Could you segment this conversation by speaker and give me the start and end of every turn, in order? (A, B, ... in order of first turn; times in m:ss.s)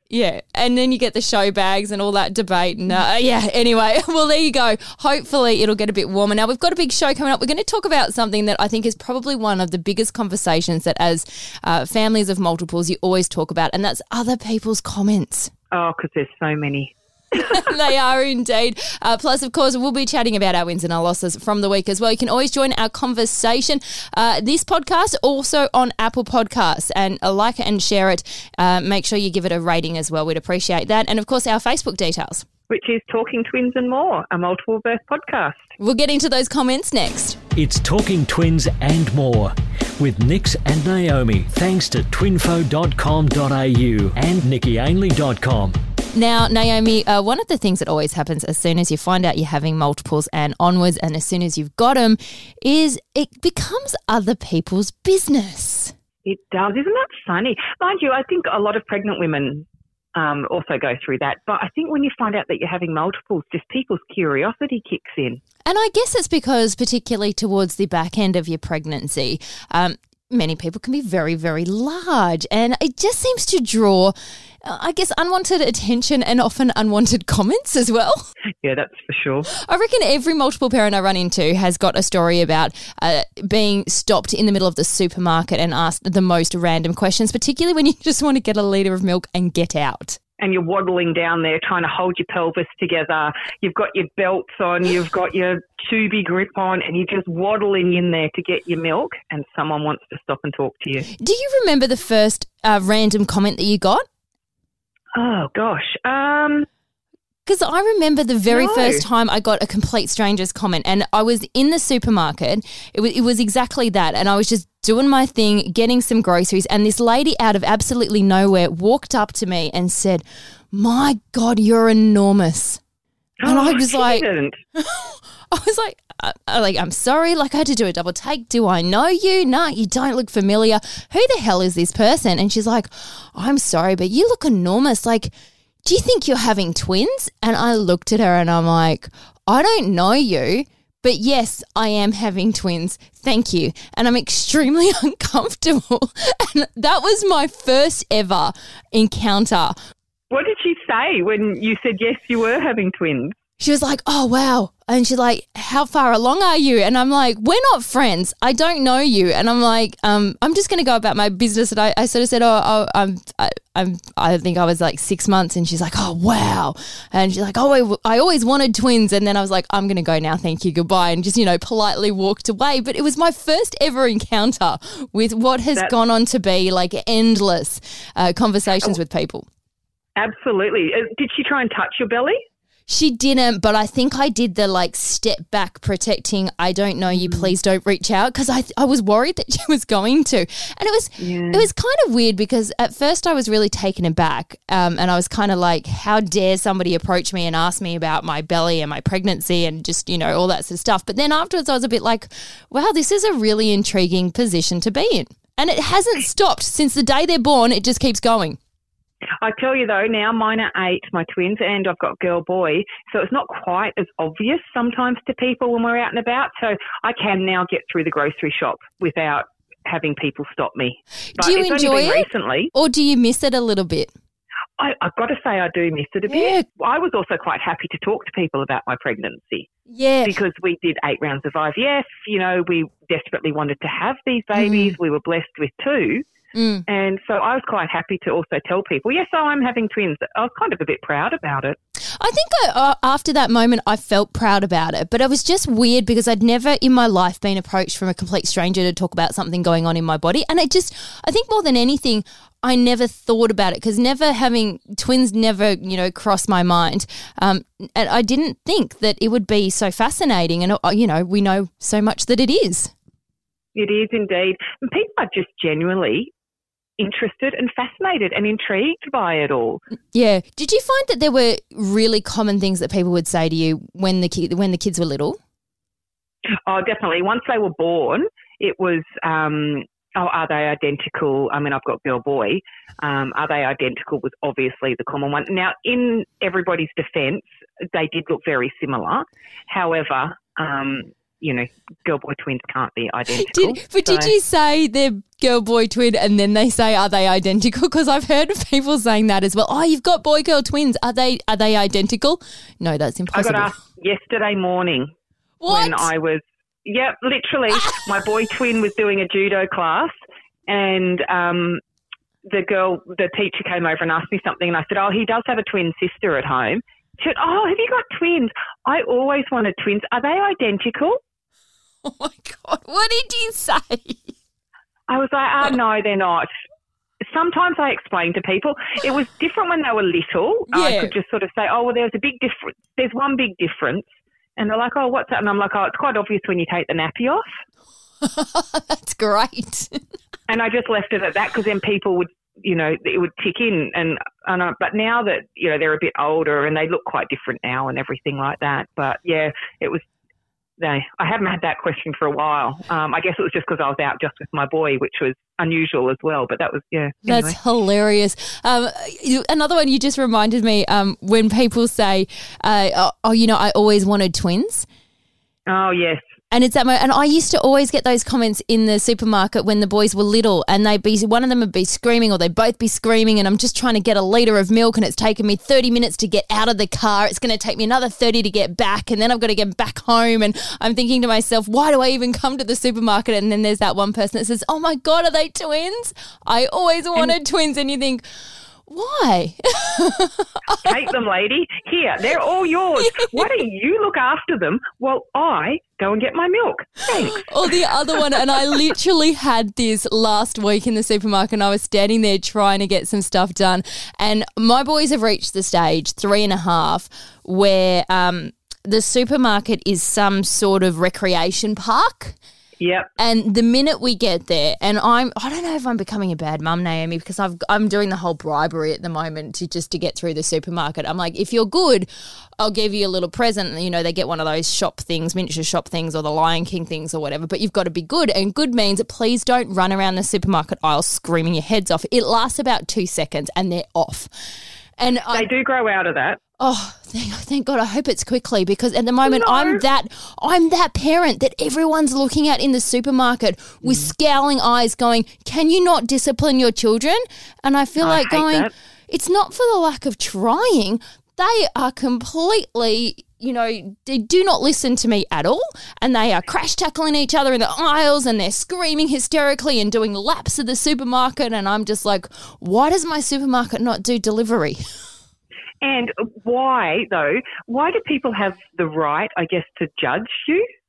0:00.1-0:15.5 A
0:15.7-0:17.7 B
0:17.3-0:32.4 A
0:32.7-0:35.7 B
0:35.8-0:37.4 A
0:37.5-0:45.8 C
0:46.1-0:55.9 A
0:56.2-1:05.4 B
1:05.6-1:18.3 A
1:18.6-1:19.5 B
1:19.5-1:30.2 A
1:30.4-1:41.1 B
1:41.2-1:44.0 A
1:45.1-1:46.7 B
1:47.4-2:02.8 A
1:48.5-1:49.0 B
2:03.4-2:04.6 B
2:03.4-2:04.2 A
2:04.7-2:15.3 A
2:15.8-2:29.7 A
2:30.3-2:33.3 B
2:33.6-2:59.4 A
3:00.2-3:02.4 B
3:02.9-3:28.6 A
3:07.1-3:07.5 B
3:11.2-3:11.7 B
3:29.4-3:42.7 B
3:41.3-3:44.1 A
3:44.8-3:49.7 B
3:46.3-3:46.6 A
3:49.9-3:50.3 A
3:50.2-3:56.2 B
3:54.6-3:55.0 A
3:56.5-3:56.8 A
3:56.9-4:01.8 B
4:02.2-4:22.9 A
4:23.7-4:26.3 B
4:27.0-4:29.8 B
4:30.1-4:35.4 A
4:36.6-4:54.3 B
4:53.3-5:03.7 A
5:03.3-5:05.1 B
5:05.6-5:06.1 A
5:05.7-5:10.1 B
5:07.7-5:08.2 A
5:10.7-5:11.8 B
5:12.5-5:21.2 B
5:22.0-5:24.3 A
5:25.1-5:26.5 B
5:27.2-5:37.5 B
5:30.7-5:31.1 A
5:38.2-5:40.0 A
5:40.5-5:50.0 B
5:50.8-5:57.6 B
5:57.2-6:04.8 A
6:05.7-6:06.2 B
6:06.5-6:28.2 A
6:28.9-6:30.9 A
6:30.8-6:38.8 B
6:33.0-6:33.4 A
6:37.0-6:52.4 A
6:52.8-6:53.1 B
6:53.2-7:02.1 A
7:02.6-7:14.3 A
7:15.0-7:15.5 A
7:15.3-7:16.4 B
7:16.6-7:44.8 A
7:19.2-7:19.8 B
7:28.0-7:28.7 B
7:45.8-7:50.7 B